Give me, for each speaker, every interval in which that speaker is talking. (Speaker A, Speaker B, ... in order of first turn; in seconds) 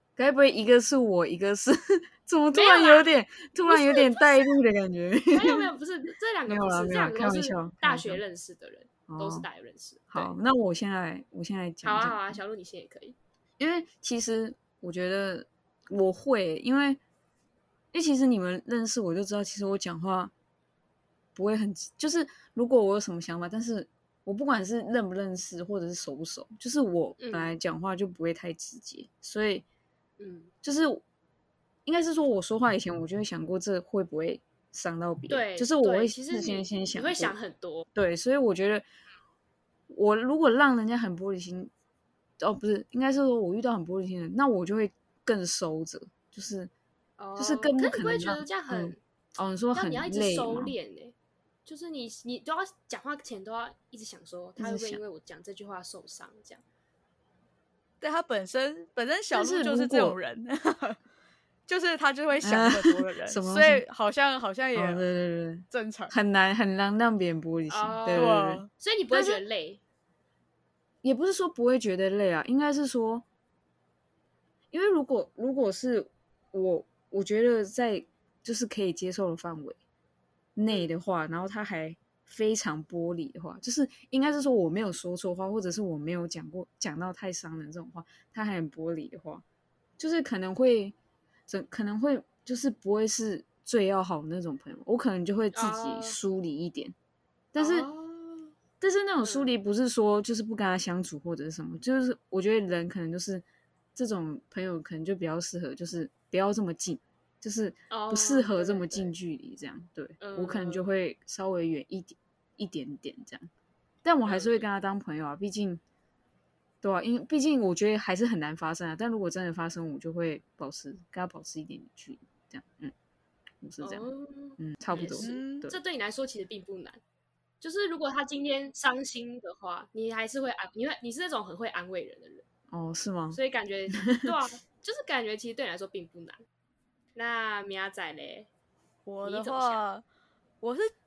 Speaker A: 0.2-5.7, 6.5-8.2, 9.1-9.5, 10.1-12.4, 13.6-17.0, 17.9-20.3, 21.4-29.6, 30.6-31.0, 31.9-37.4, 38.0-38.9, 39.9-41.7, 42.4-46.7, 47.4-50.7, 54.6-55.0, 59.3-60.2, 62.4-63.8, 64.8-69.4, 71.0-73.2, 74.7-79.8, 80.6-89.4, 90.0-91.0, 91.5-97.0, 97.5-97.9, 98.8-103.4, 104.0-113.5, 114.0-115.8, 116.8-122.9, 123.6-124.1, 124.6-125.7, 132.7-133.4, 134.0-134.3
Speaker B: 2.5-4.6, 5.3-10.3, 11.8-13.2, 27.2-27.6, 30.2-30.5, 35.3-37.9, 47.2-49.0, 49.8-51.1, 51.7-56.6, 67.7-69.8, 95.5-96.2, 97.6-98.5, 99.2-99.5, 107.9-109.1, 110.2-110.9, 114.2-114.6, 123.8-127.0, 127.6-132.4, 133.3-136.4, 137.2-138.5, 139.2-139.8
Speaker C: 58.0-61.0, 61.7-65.0, 65.7-66.1, 68.1-68.7, 125.2-125.7, 139.1-140.0, 140.6-140.9